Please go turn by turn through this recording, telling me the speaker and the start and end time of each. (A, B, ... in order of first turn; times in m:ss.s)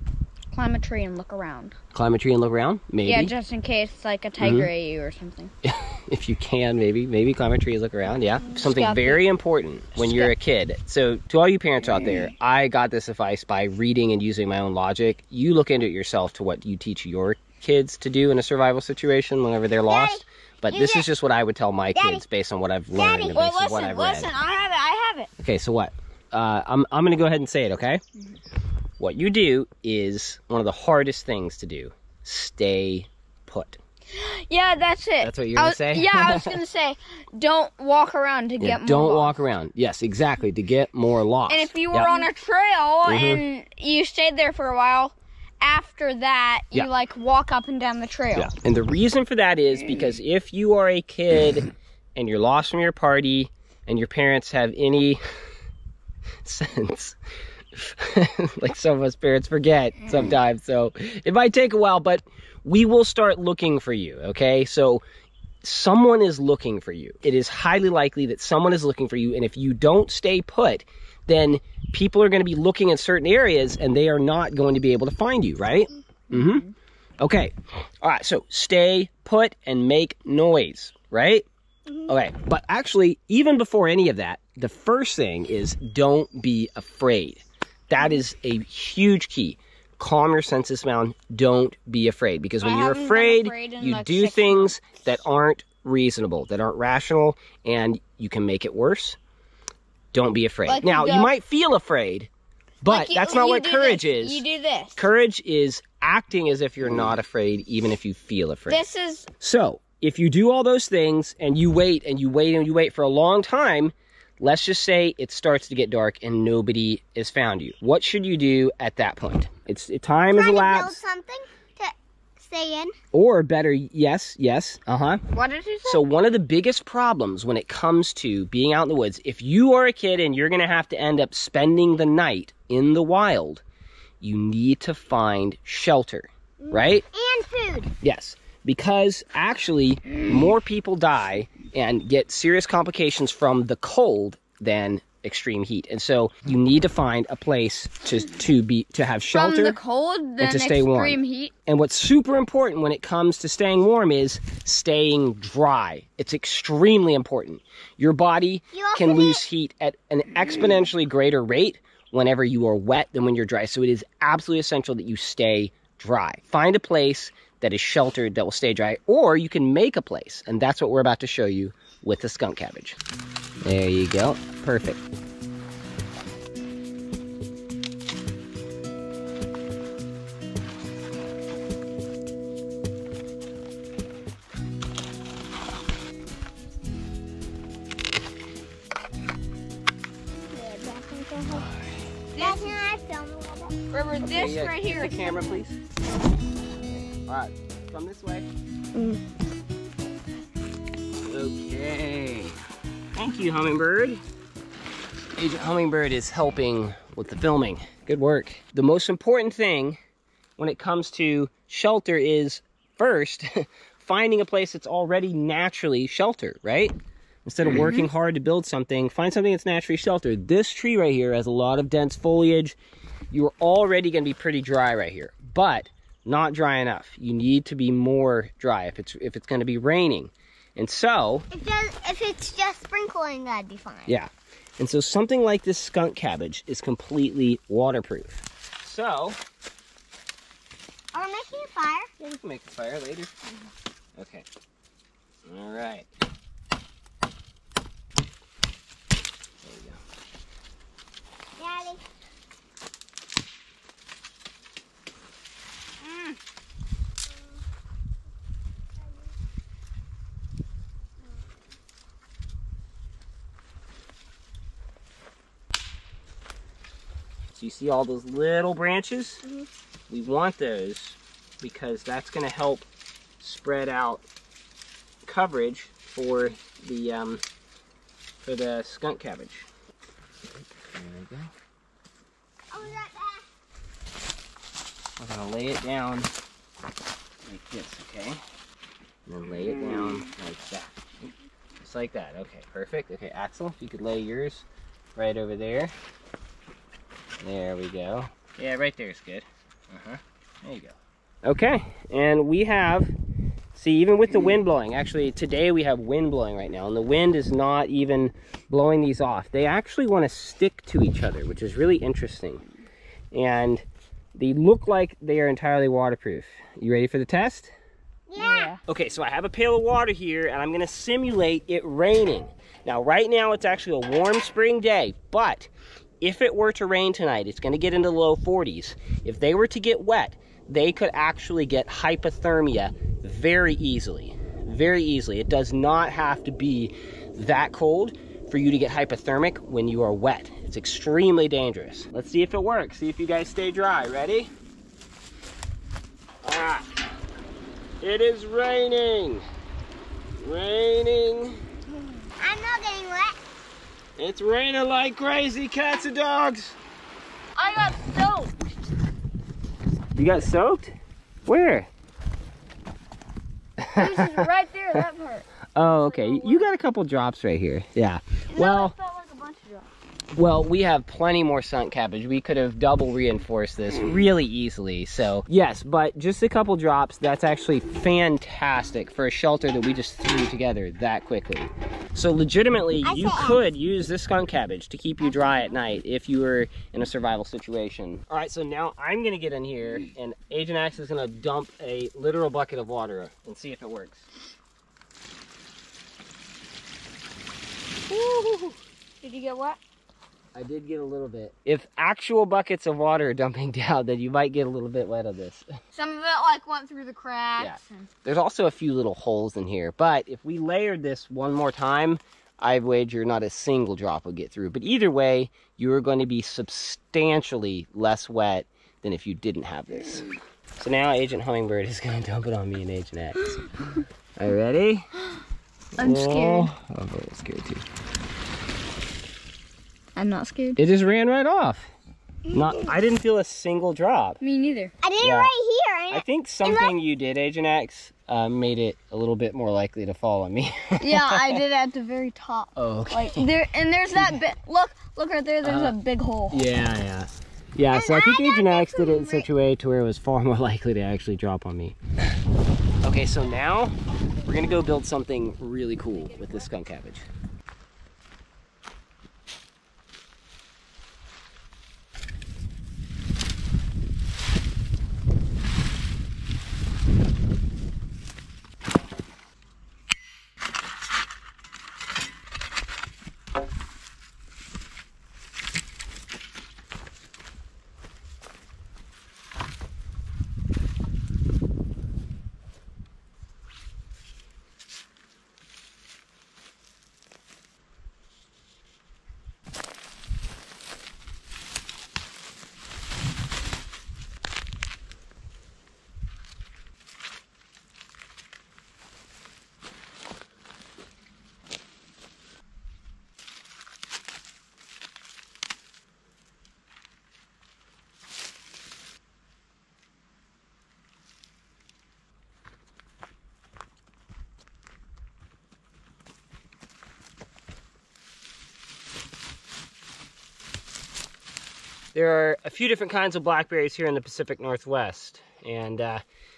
0:00.5-0:01.8 A
0:01.9-0:03.3 B
0:03.0-0:05.5 A
0:04.4-0:04.7 B
0:05.6-0:24.3 B
0:08.5-0:09.2 A
0:10.0-0:10.3 A
0:19.9-0:21.0 C
0:22.0-0:22.2 C
0:22.9-0:25.3 A
0:25.4-0:28.0 B
0:29.0-0:33.8 B
0:34.1-0:39.4 A
0:35.2-0:36.6 B
0:38.6-0:42.1 B
0:41.5-0:48.5 A
0:43.0-0:43.4 B
0:48.3-0:55.2 B
0:56.4-0:57.2 B
0:57.7-1:05.0 B
1:05.6-1:16.6 B
1:16.3-1:16.7 A
1:17.2-1:21.5 B
1:22.1-1:39.2 B
1:32.6-1:34.7 A
1:40.1-1:42.3 B
1:40.7-1:41.3 A
1:42.8-1:44.4 B
1:42.8-1:45.0 A
1:45.0-1:48.8 B
1:48.7-1:49.3 A
1:49.4-2:01.0 B
2:00.3-2:03.0 C
2:03.1-2:05.2 B
2:05.3-2:06.0 A
2:05.8-2:13.6 B
2:14.2-2:17.0 B
2:16.6-2:17.9 C
2:18.0-2:29.8 B
2:29.3-2:31.5 A
2:30.4-2:53.0 B
2:38.7-2:39.4 C
2:53.6-2:55.0 B
3:10.5-3:11.7 C
3:11.6-3:12.0 B
3:12.3-3:12.8 A
3:12.4-3:13.8 C
3:13.9-3:15.6 A
3:14.2-3:15.8 B
3:16.9-3:18.5 B
3:18.9-3:19.2 C
3:21.2-3:22.6 B
3:23.1-3:24.2 B
3:25.4-3:30.0 B
3:30.6-3:42.8 B
3:43.3-3:51.5 B
3:51.5-3:54.2 C
3:54.1-3:59.4 B
4:01.1-4:02.1 C
4:02.2-4:03.3 B
4:04.2-4:04.5 B
4:05.4-4:06.1 B
4:09.6-4:10.0 B
4:11.6-4:12.0 C
4:27.5-4:29.4 B
4:29.4-4:29.7 C
4:30.1-4:32.9 B
4:33.4-4:34.2 B
4:35.2-4:37.4 B
4:38.4-4:39.7 B
4:40.5-4:41.5 B
4:42.7-4:43.5 C
4:45.2-4:46.3 B
4:47.4-4:48.4 B
4:49.2-4:51.1 B
4:51.8-4:54.6 B
4:55.2-4:55.9 B
4:57.4-5:03.1 B
5:03.7-5:12.6 B
5:13.3-5:17.7 B
5:18.3-5:18.8 C
5:18.4-5:18.8 A
5:18.9-5:25.7 B
5:26.2-5:44.5 B
5:46.4-5:46.9 B
5:48.0-5:49.4 B
5:50.4-5:51.6 B
5:52.4-5:53.4 C
5:54.2-5:56.8 B
5:57.6-5:58.5 A
6:00.2-6:00.9 B
6:01.4-6:01.9 B
6:03.8-6:05.0 B
6:04.0-6:06.6 A
6:05.8-6:08.9 B
6:08.5-6:09.9 A
6:10.3-6:34.2 B
6:23.0-6:23.6 C
6:38.1-6:38.8 B
6:39.2-6:39.8 A
6:40.5-6:45.7 B
6:45.9-6:48.1 A
6:47.6-7:03.5 B
7:04.4-7:05.1 B
7:06.0-7:06.7 A
7:06.0-7:07.8 B
7:10.2-7:10.8 A
7:10.8-7:11.9 B
7:12.5-7:14.4 B
7:14.4-7:14.9 A
7:15.0-7:16.7 C
7:15.2-7:15.5 B
7:16.1-7:21.6 B
7:21.0-7:26.6 A
7:22.8-7:23.5 B
7:24.1-7:24.4 B
7:25.6-7:25.9 B
7:26.5-7:32.0 B
7:27.9-7:29.5 C
7:33.0-7:37.3 B
8:42.1-8:46.2 B